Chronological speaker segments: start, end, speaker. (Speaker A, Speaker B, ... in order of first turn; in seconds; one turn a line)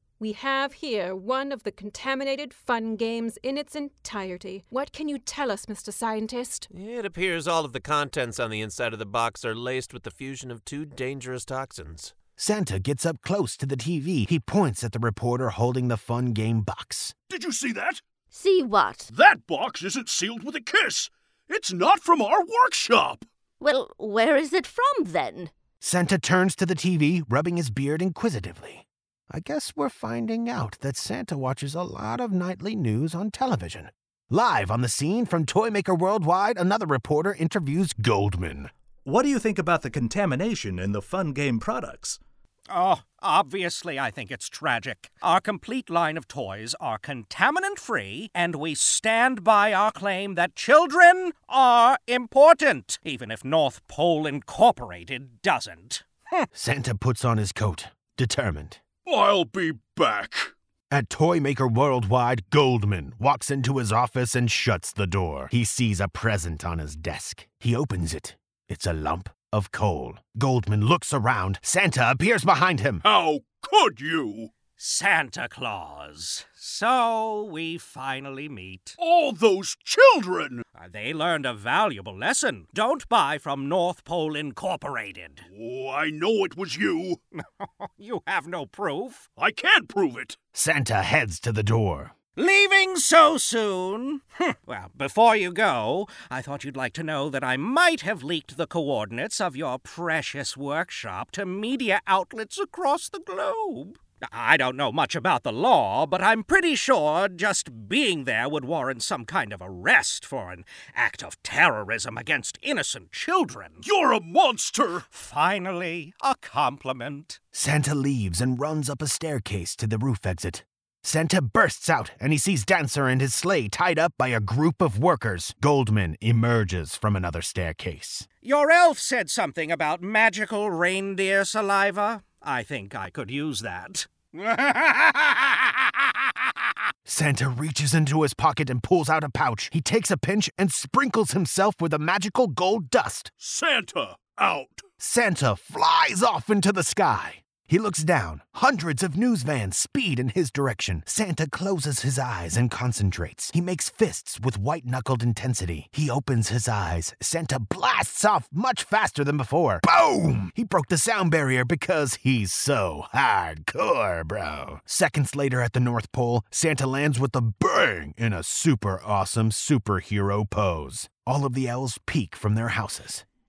Speaker A: 0.2-6.7
Speaker B: 6.7-12.1
Speaker C: 12.4-17.1
Speaker D: 17.3-18.0
Speaker E: 18.3-19.1
Speaker D: 19.1-23.2
Speaker E: 23.6-25.5
Speaker C: 25.8-38.7
Speaker F: 39.1-42.2
Speaker G: 42.7-56.5
Speaker C: 56.5-58.8
Speaker D: 59.0-60.5
Speaker C: 60.9-73.0
Speaker D: 73.0-74.5
Speaker G: 74.8-79.0
Speaker D: 79.0-80.6
Speaker G: 80.8-85.5
Speaker D: 85.5-87.2
Speaker G: 87.4-89.2
Speaker D: 89.4-90.4
Speaker C: 90.5-92.1
Speaker G: 92.4-113.8
Speaker D: 113.8-115.0
Speaker G: 115.1-117.4
Speaker C: 117.5-128.3
Speaker G: 128.4-136.1
Speaker C: 137.1-143.3
Speaker D: 143.4-144.8
Speaker C: 145.0-173.2